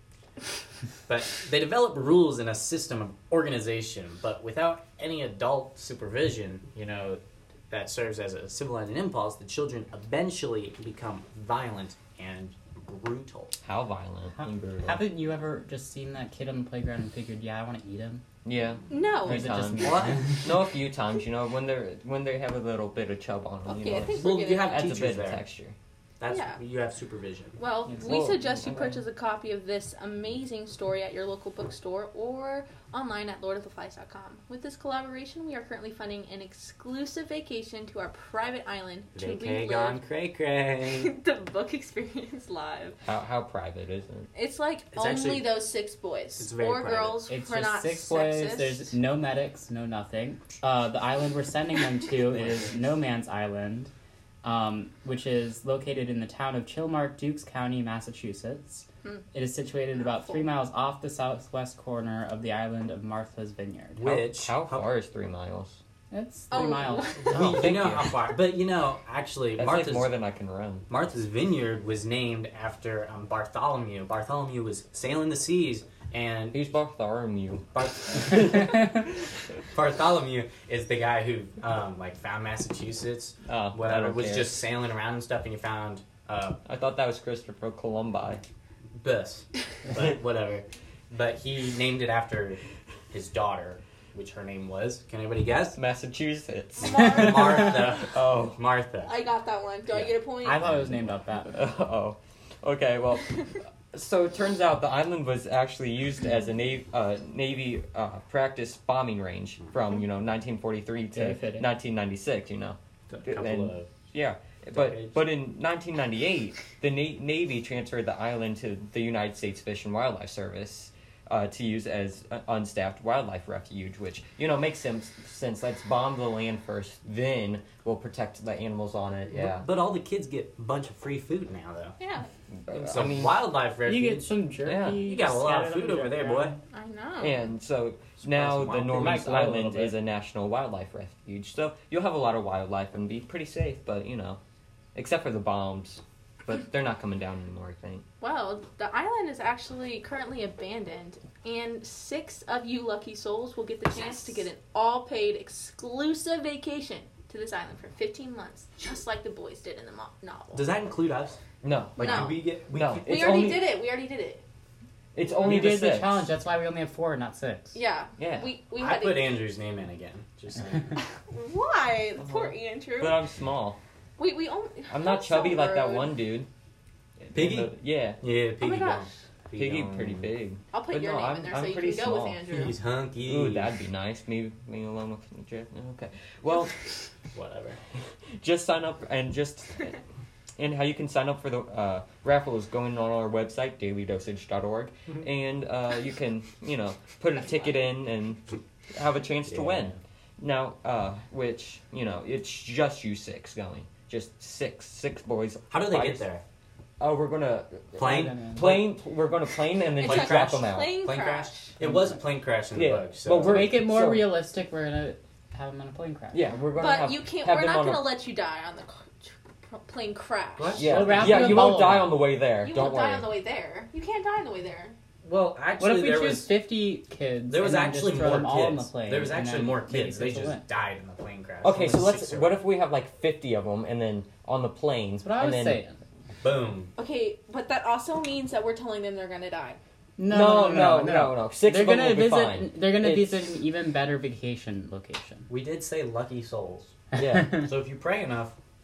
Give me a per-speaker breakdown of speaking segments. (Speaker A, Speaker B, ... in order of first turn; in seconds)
Speaker A: 1.1-13.5, 19.8-20.3, 24.1-25.4, 26.2-27.7, 39.1-41.2, 44.9-45.7, 46.3-47.3, 64.0-64.9, 67.2-70.2, 70.9-76.6, 77.8-78.8, 79.7-86.6, 89.0-92.6, 93.1-95.8, 96.8-99.3, 99.9-101.2, 113.1-113.9, 114.7-115.2, 129.3-132.0, 132.7-134.5, 135.0-136.6, 138.2-139.3, 153.9-154.5, 160.5-161.4, 162.0-163.5, 168.7-170.9, 177.3-180.3, 182.4-183.8, 187.3-187.8, 199.5-200.0, 205.7-206.4, 208.0-208.9, 210.0-213.7, 220.6-221.9, 225.2-226.6, 227.5-232.6, 236.4-236.9, 245.5-247.0, 247.6-248.6
Speaker B: 13.6-15.0, 18.4-25.8, 28.0-29.1, 43.0-44.3, 64.0-65.8, 67.3-68.3, 69.6-70.9, 76.5-79.3, 83.5-84.6, 86.7-88.4, 95.7-98.6, 101.5-129.7, 132.7-133.4, 134.6-135.0, 137.2-144.4, 144.9-148.0, 161.6-163.7, 165.2-166.3, 168.2-168.5, 172.2-173.8, 174.9-176.5, 177.2-178.2, 179.6-182.4, 183.2-186.8, 188.4-190.0, 190.6-206.3, 207.0-211.0, 212.7-214.3, 216.3-218.2, 220.8-223.3, 231.6-235.8, 240.3-243.4, 247.2-247.6
Speaker C: 14.4-18.2, 19.2-20.5, 27.9-28.3, 47.3-53.9, 54.4-64.0, 66.1-67.3, 100.4-101.6, 111.1-111.7, 133.8-136.6, 138.9-139.9, 165.4-167.8, 208.1-208.8, 211.8-212.2, 213.4-216.4, 220.8-222.3, 225.8-230.7, 235.2-236.0, 240.2-245.5
Speaker D: 18.9-19.5, 23.7-24.9, 26.3-26.6, 27.6-40.0, 40.9-43.0, 44.4-48.9, 66.5-67.2, 96.9-97.6, 99.0-100.5, 132.0-132.3, 136.7-137.5, 148.2-160.7, 162.0-162.3, 163.1-164.4, 167.8-169.4, 171.2-173.1, 174.2-176.1, 178.6-179.1, 180.7-182.8, 210.0-211.8, 216.8-220.9, 222.6-224.9, 237.0-239.8